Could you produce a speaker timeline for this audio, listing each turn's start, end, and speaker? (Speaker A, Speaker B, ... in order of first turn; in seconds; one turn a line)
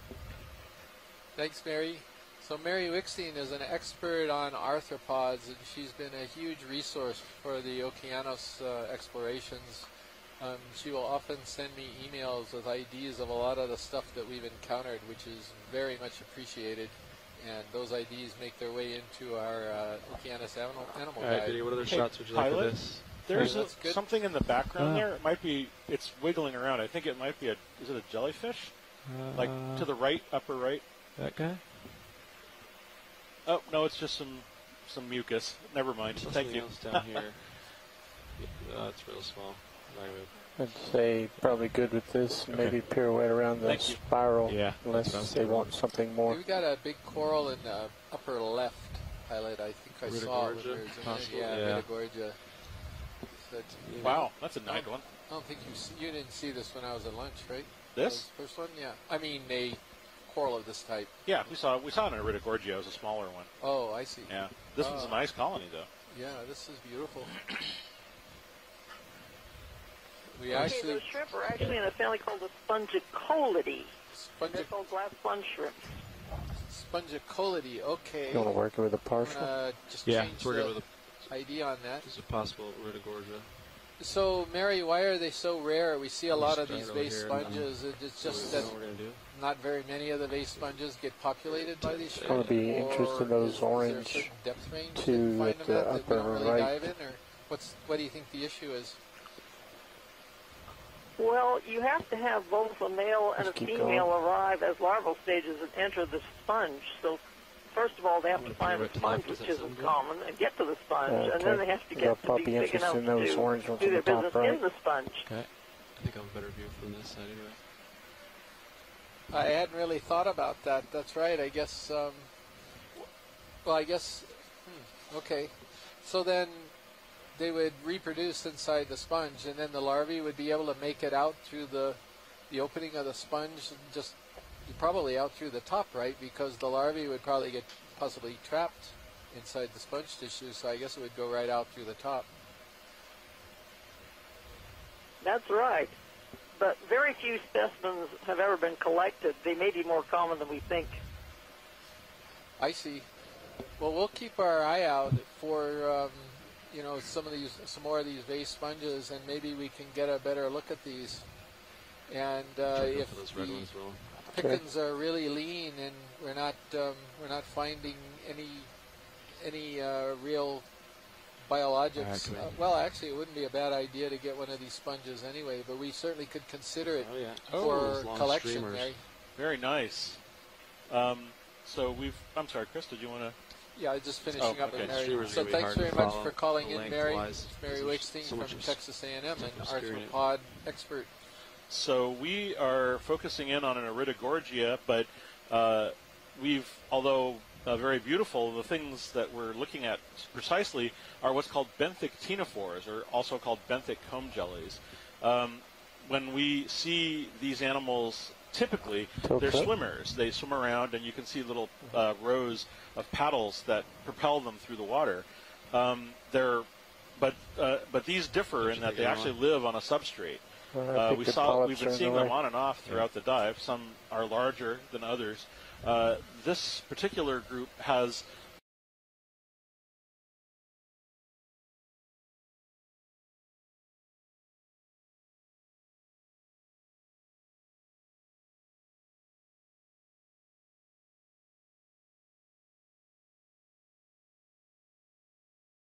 Speaker A: 1.4-22.1
Speaker B: 21.2-23.7
Speaker C: 21.8-30.8
Speaker A: 23.3-24.0
Speaker B: 24.8-25.1
Speaker B: 29.0-29.9
Speaker B: 31.2-31.8
Speaker C: 33.4-37.1
Speaker B: 36.1-40.4
Speaker D: 40.5-46.4
Speaker B: 41.4-41.7
Speaker B: 42.5-42.8
Speaker C: 43.6-44.0
Speaker B: 44.4-45.9
Speaker A: 46.2-61.5
Speaker B: 50.0-51.9
Speaker B: 53.8-54.3
Speaker C: 54.0-55.0
Speaker C: 57.9-58.3
Speaker C: 61.2-63.5
Speaker A: 63.6-65.5
Speaker C: 64.2-65.9
Speaker A: 66.1-67.4
Speaker A: 70.3-71.1
Speaker E: 70.5-73.9
Speaker A: 74.1-74.7
Speaker E: 74.5-76.0
Speaker A: 76.6-82.1
Speaker D: 78.3-79.5
Speaker B: 80.0-83.6
Speaker A: 84.0-99.0
Speaker B: 86.3-89.2
Speaker B: 91.5-93.0
Speaker D: 92.2-96.9
Speaker E: 101.2-115.3
Speaker D: 103.3-104.1
Speaker B: 108.3-110.0
Speaker D: 111.0-114.6
Speaker B: 115.2-117.6
Speaker A: 119.3-142.3
Speaker E: 145.2-145.9
Speaker E: 146.5-151.0
Speaker A: 152.6-153.1
Speaker A: 153.7-170.8
Speaker B: 162.7-164.2
Speaker D: 164.4-164.6
Speaker A: 171.4-179.1
Speaker B: 171.9-172.7
Speaker B: 176.9-179.0
Speaker C: 177.5-177.8
Speaker C: 179.3-180.3
Speaker C: 180.9-183.4
Speaker A: 183.7-191.1
Speaker C: 184.3-185.4
Speaker B: 184.7-190.4
Speaker C: 191.7-228.2
Speaker D: 209.2-209.7
Speaker B: 218.6-219.3
Speaker D: 220.7-222.4